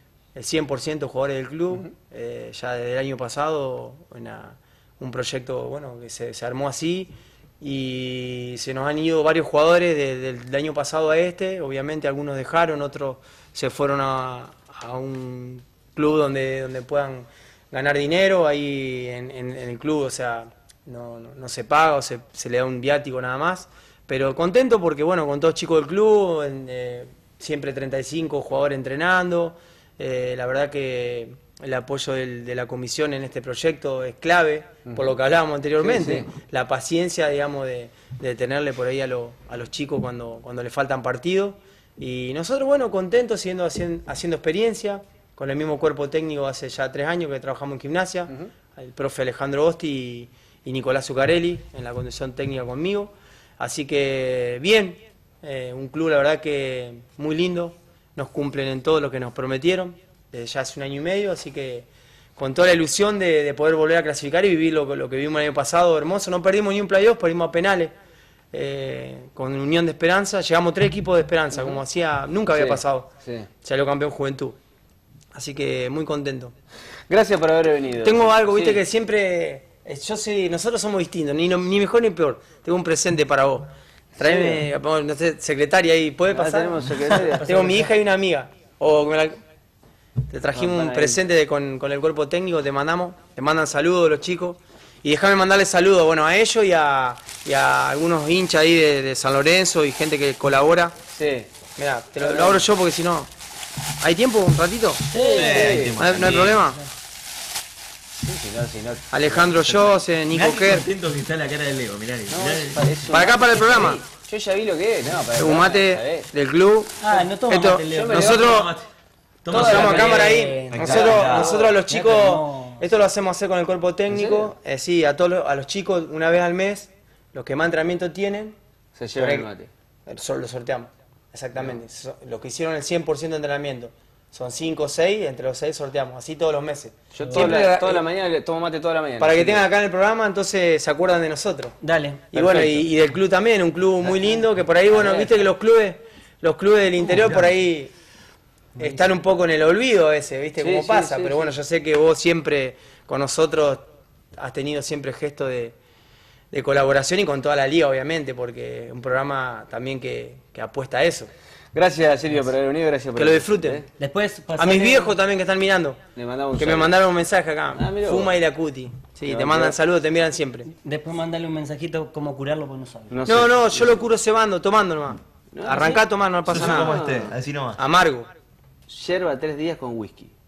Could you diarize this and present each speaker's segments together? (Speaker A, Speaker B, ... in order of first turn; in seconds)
Speaker A: 0.3-67.9, 68.5-73.1, 73.6-74.6, 75.3-76.5, 78.0-89.4, 90.3-100.9, 101.8-103.3, 104.0-105.2, 105.7-106.8, 109.1-110.9, 113.1-114.0, 115.3-118.7, 119.5-128.6, 129.2-129.5, 130.1-138.1, 139.2-141.8, 142.3-147.9, 148.8-155.8, 156.5-161.3, 163.2-163.8, 164.6-166.0, 166.6-170.7, 173.3-177.0, 177.8-178.3
Speaker B: 35.8-36.3, 71.5-71.8, 72.5-73.5, 77.1-78.8, 84.2-84.7, 86.3-87.8, 90.5-91.2, 101.1-101.5, 102.2-102.7, 105.3-106.0, 108.2-109.7, 112.3-116.3, 117.9-118.7, 119.5-121.7, 124.1-124.5, 128.9-129.7, 137.1-139.6, 142.3-142.8, 144.0-144.4, 144.9-145.4, 150.6-151.5, 161.7-163.9, 166.2-167.0, 167.7-168.3, 169.3-169.8, 173.1-174.1, 175.5-177.3, 178.9-180.3
Speaker C: 105.1-105.9, 117.0-118.5, 119.5-122.8, 137.2-137.5, 141.8-142.4, 164.0-165.2, 170.8-173.1
Speaker D: 105.2-106.6, 109.8-112.8, 118.4-118.8, 119.4-121.6, 176.5-177.8